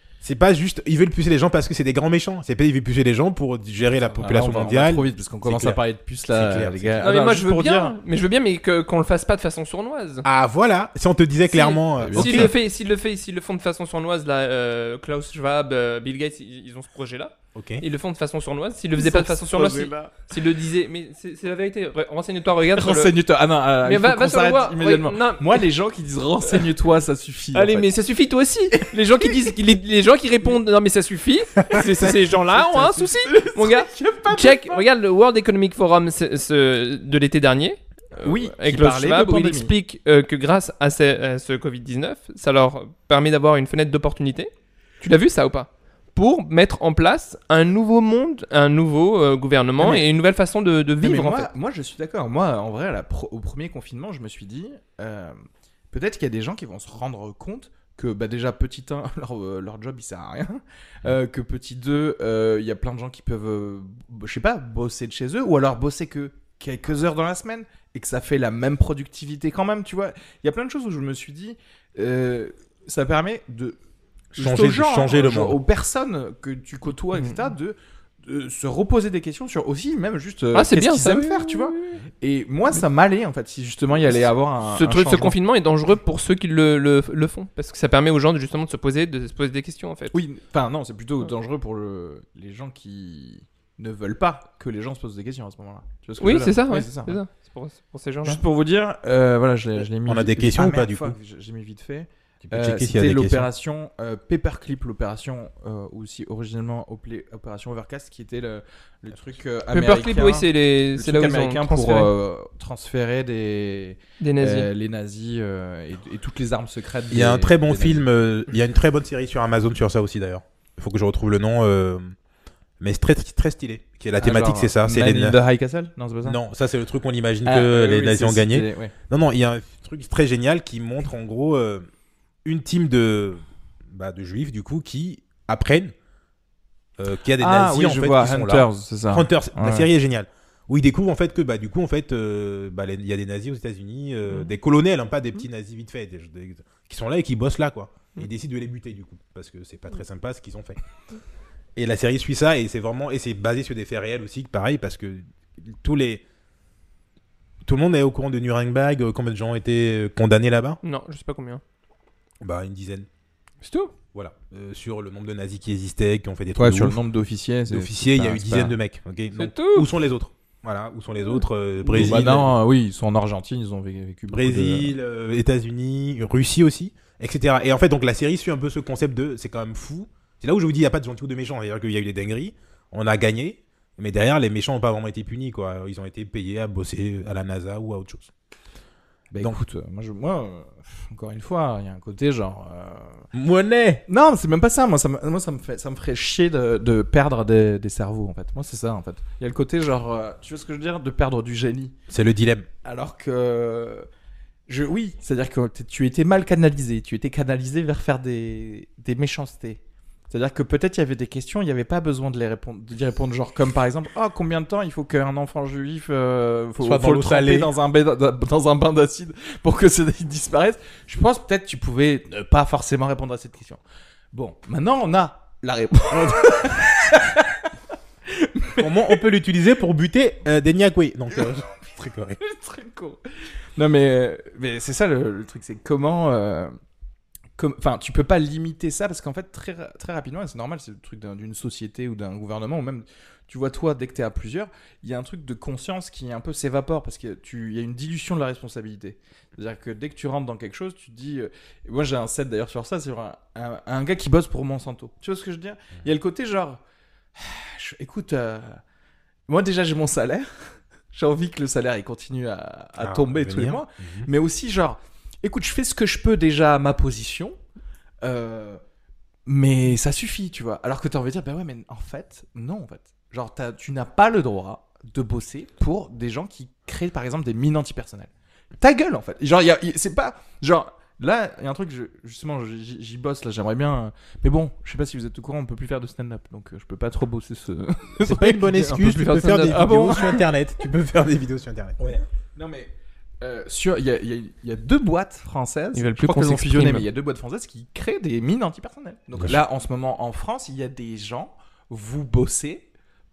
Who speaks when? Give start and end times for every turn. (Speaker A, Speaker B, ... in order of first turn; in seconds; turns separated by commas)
Speaker A: 0.2-7.1, Speaker B: 4.1-8.0, Speaker C: 7.0-10.3, Speaker A: 10.2-12.5, Speaker C: 11.5-23.1, Speaker B: 12.0-12.5, Speaker A: 17.6-17.8, Speaker B: 19.0-20.1, Speaker B: 22.8-27.9, Speaker C: 23.8-25.6, Speaker C: 27.5-44.5, Speaker B: 31.7-34.8, Speaker B: 38.2-39.7, Speaker C: 45.0-51.5, Speaker B: 49.8-50.1, Speaker B: 51.0-55.4, Speaker B: 55.9-73.8, Speaker B: 74.3-85.4, Speaker A: 74.4-75.6, Speaker C: 77.2-77.4, Speaker C: 80.5-82.0, Speaker C: 84.7-90.2, Speaker B: 90.1-97.2, Speaker C: 96.2-98.4, Speaker B: 98.2-118.0, Speaker A: 100.1-101.2, Speaker A: 102.4-103.5, Speaker C: 109.7-112.1, Speaker C: 114.2-114.7, Speaker A: 117.1-122.1, Speaker A: 122.8-125.4, Speaker B: 124.2-126.4, Speaker A: 126.2-131.9, Speaker B: 127.5-128.9, Speaker A: 132.4-135.9, Speaker A: 137.0-150.8, Speaker B: 137.4-139.9, Speaker A: 151.8-156.2, Speaker A: 157.7-160.8, Speaker C: 160.8-161.6, Speaker A: 162.4-163.1, Speaker C: 163.6-163.9, Speaker A: 164.1-167.0, Speaker B: 166.6-168.8, Speaker A: 167.7-172.5, Speaker C: 169.3-169.9, Speaker B: 171.9-174.9, Speaker A: 174.3-188.3, Speaker B: 189.3-193.2, Speaker A: 193.3-194.0, Speaker B: 194.1-201.9, Speaker A: 202.1-202.7, Speaker B: 202.8-204.1, Speaker B: 204.7-223.8, Speaker A: 216.8-217.7, Speaker B: 224.3-227.6, Speaker A: 226.1-226.6, Speaker B: 228.3-229.2, Speaker A: 228.8-232.4, Speaker B: 232.4-233.2, Speaker B: 233.8-236.7, Speaker B: 237.6-256.8, Speaker B: 257.4-258.8, Speaker B: 259.5-260.5, Speaker B: 261.1-267.6, Speaker A: 263.0-264.3, Speaker B: 268.2-268.8, Speaker B: 269.5-289.0, Speaker A: 288.2-292.0, Speaker C: 288.9-290.4, Speaker B: 292.0-302.9, Speaker C: 295.9-297.1